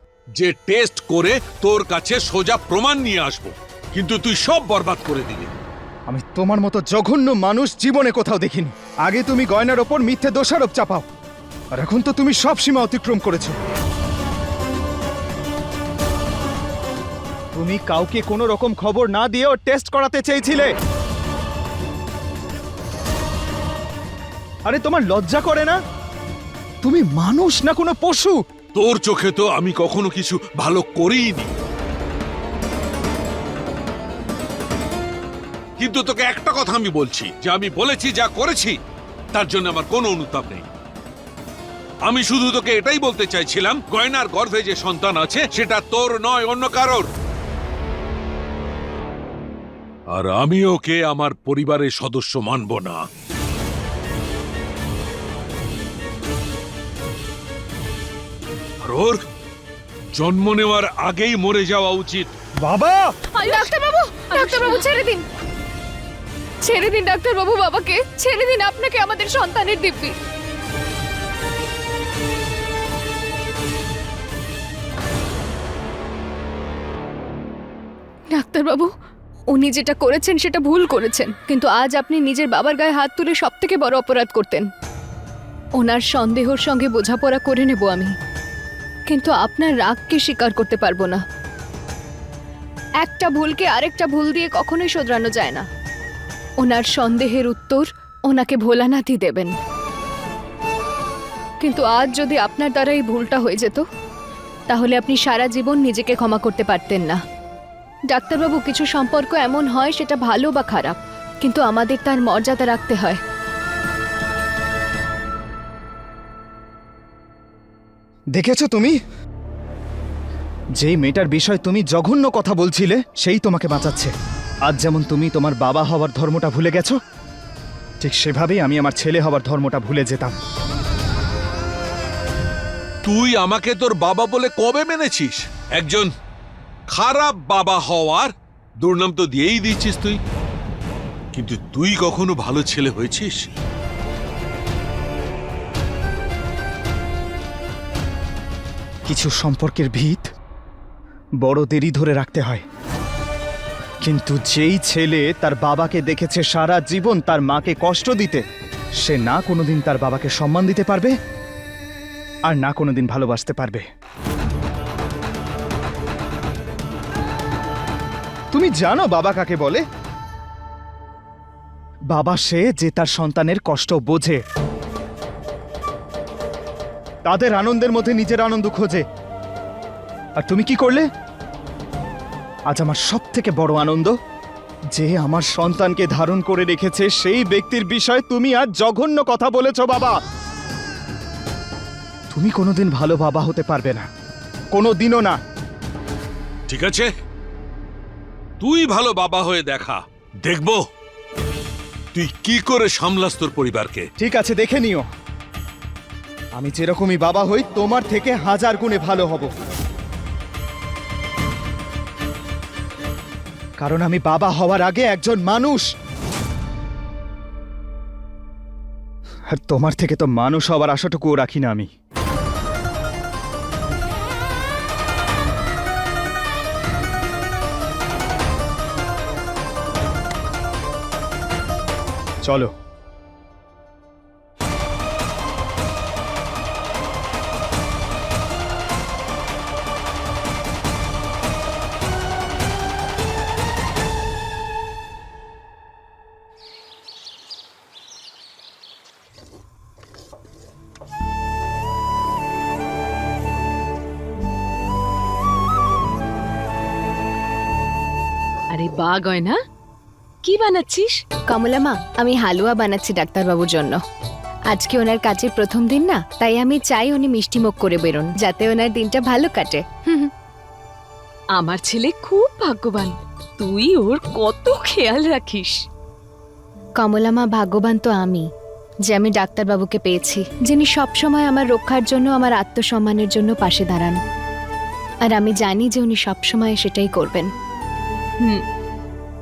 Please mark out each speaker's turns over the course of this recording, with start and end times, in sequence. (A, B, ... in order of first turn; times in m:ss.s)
0:00.4-0:05.5 A
0:06.1-0:11.1 B
0:11.7-0:13.6 B
0:17.5-0:20.7 B
0:24.6-0:25.8 B
0:26.8-0:28.4 B
0:28.7-0:31.5 A
0:35.8-0:38.7 A
0:39.3-0:40.7 A
0:42.0-0:47.1 A
0:50.1-0:53.0 A
0:58.8-0:59.2 A
1:00.1-1:02.3 A
1:02.6-1:03.1 B
1:03.3-1:04.9 C
1:03.4-1:05.2 D
1:06.6-1:10.1 D
1:18.3-1:18.9 D
1:19.5-1:24.7 D
1:25.8-1:28.1 D
1:29.1-1:31.2 D
1:33.0-1:35.6 D
1:36.6-1:39.5 D
1:41.6-1:43.8 D
1:44.7-1:47.2 D
1:48.1-1:53.2 D
1:58.3-1:59.0 B
2:00.8-2:04.1 B
2:04.6-2:07.0 B
2:08.0-2:10.4 B
2:13.0-2:16.1 A
2:16.9-2:20.2 A
2:21.3-2:23.5 A
2:29.1-2:30.3 B
2:31.4-2:32.6 B
2:34.0-2:38.4 B
2:39.0-2:41.1 B
2:42.5-2:43.8 B
2:48.5-2:49.8 B
2:52.1-2:54.4 B
2:57.2-2:59.0 B
3:00.4-3:01.0 B
3:02.7-3:04.1 B
3:04.9-3:10.2 B
3:12.3-3:14.1 B
3:14.7-3:15.4 B
3:16.7-3:17.1 A
3:18.6-3:20.8 A
3:22.1-3:24.0 A
3:24.2-3:25.0 B
3:26.6-3:29.5 B
3:33.8-3:35.9 B
3:39.5-3:41.9 B
3:52.4-3:52.7 B
4:18.7-4:19.6 C
4:20.4-4:21.2 C
4:21.5-4:24.0 D
4:24.7-4:30.3 D
4:31.6-4:35.8 C
4:37.0-4:38.5 D
4:39.1-4:44.2 D
4:45.2-4:47.5 D